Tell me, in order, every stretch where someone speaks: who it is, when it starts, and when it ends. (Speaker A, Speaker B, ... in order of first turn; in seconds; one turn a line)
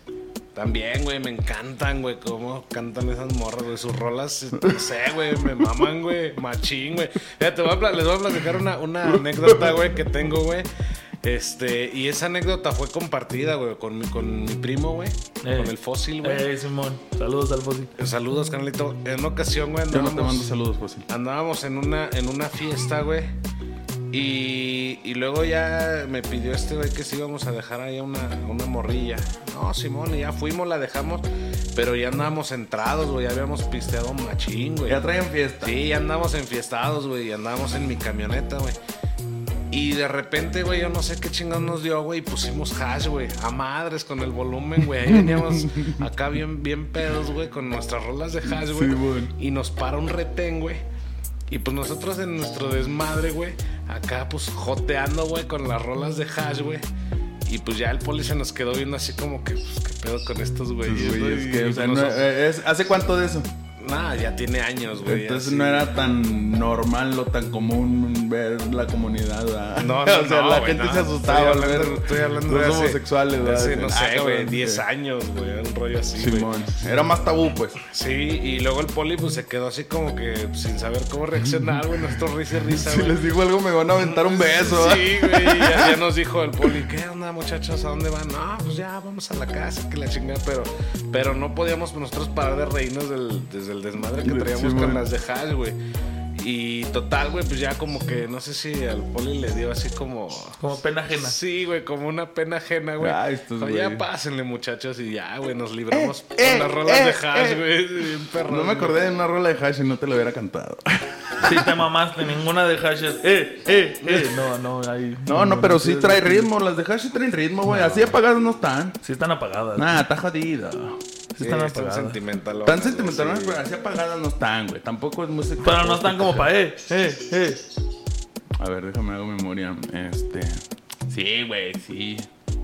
Speaker A: 0.5-10.7
Speaker A: 11.2-16.5
Speaker B: 15.4-17.9
Speaker A: 18.0-20.5
Speaker C: 19.9-21.1
Speaker A: 21.1-23.3
Speaker A: 24.1-35.0
Speaker C: 34.9-35.8
Speaker A: 35.6-38.8
Speaker A: 39.7-50.8
Speaker C: 45.0-46.0
Speaker C: 48.5-49.3
Speaker A: 51.5-56.8
Speaker A: 57.4-62.3
Speaker C: 60.8-63.5
Speaker A: 63.8-66.0
Speaker C: 65.0-74.8
Speaker A: 69.8-76.7
Speaker C: 76.2-77.8
Speaker A: 77.9-83.2
Speaker C: 82.0-86.0
Speaker A: 84.0-95.8
Speaker C: 94.2-95.0
Speaker A: 96.3-109.0
Speaker B: 100.6-101.3
Speaker C: 103.0-104.0
Speaker C: 105.9-107.7
Speaker C: 108.4-111.7
Speaker B: 111.4-116.5
Speaker C: 115.2-119.0
Speaker B: 117.7-118.2
Speaker B: 119.0-119.9
Speaker C: 119.8-121.0
Speaker B: 121.3-122.2
Speaker A: 121.4-123.6
Speaker C: 122.7-126.5
Speaker B: 125.6-127.6
Speaker C: 128.6-132.3